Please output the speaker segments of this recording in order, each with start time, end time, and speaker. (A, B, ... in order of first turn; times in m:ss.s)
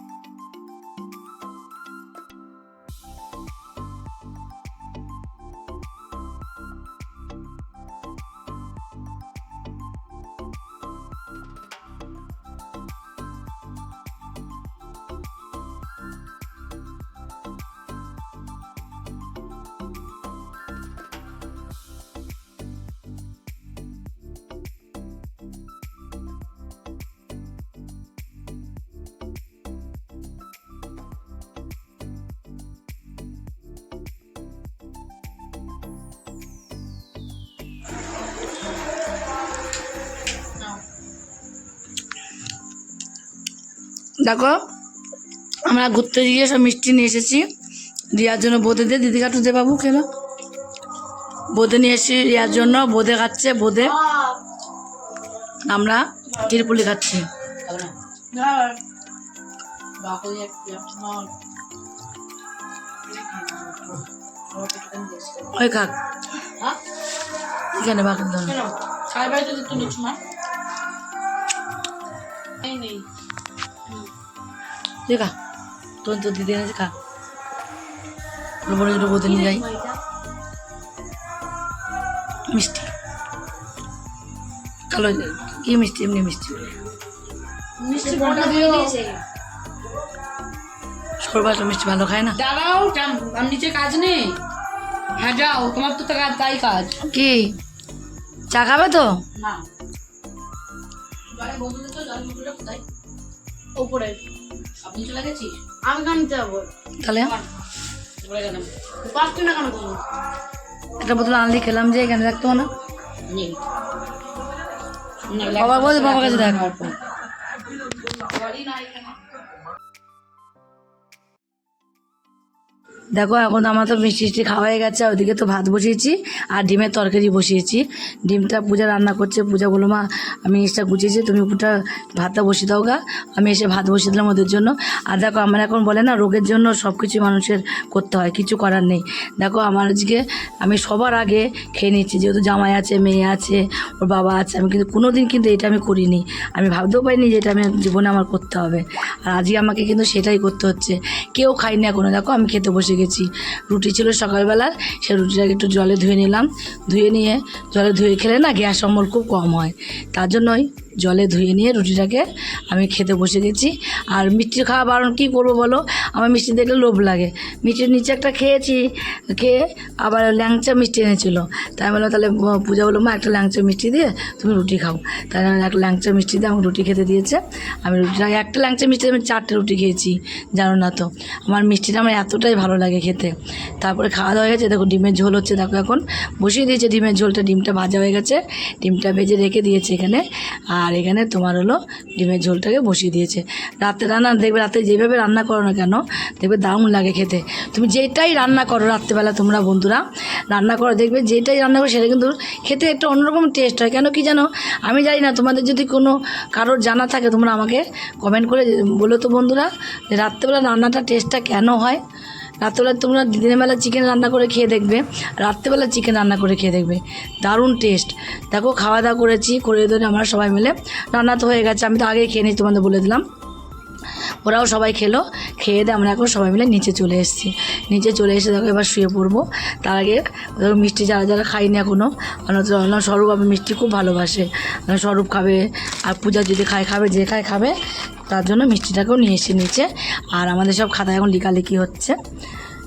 0:44.2-0:44.6 A
0:45.7-0:47.5 A
0:48.1-0:50.1 A
0:51.5-0:54.0 A
0:53.8-0:54.4 B
0:55.7-0:57.2 A
0:57.7-0:58.8 C
1:00.0-1:01.3 C
1:03.1-1:05.6 C
1:05.5-1:05.9 A
1:07.7-1:08.6 A
1:08.4-1:10.2 C
1:12.6-1:13.0 C
1:15.1-1:15.3 A
1:16.0-1:16.9 A
1:18.7-1:19.6 A
1:19.2-1:20.0 B
1:22.5-1:22.9 A
1:24.9-1:26.7 A
1:27.8-1:29.0 C
1:27.8-1:29.2 B
1:31.2-1:32.4 A
1:32.4-1:34.4 C
1:35.2-1:37.0 C
1:37.0-1:37.5 A
1:38.5-1:39.2 A
1:39.4-1:39.6 C
1:41.3-1:42.8 C
1:43.8-1:44.2 B
1:44.8-1:45.6 C
1:45.8-1:46.7 B
1:47.0-1:47.4 A
1:48.2-1:48.7 C
1:49.0-1:50.0 B
1:51.0-1:52.7 A
1:53.3-1:53.6 C
1:55.3-1:57.0 C
1:55.5-1:56.9 A
1:58.0-1:59.2 C
2:03.1-3:32.0 A
3:32.6-3:43.2 A
3:44.4-3:57.8 A
3:58.3-4:02.2 A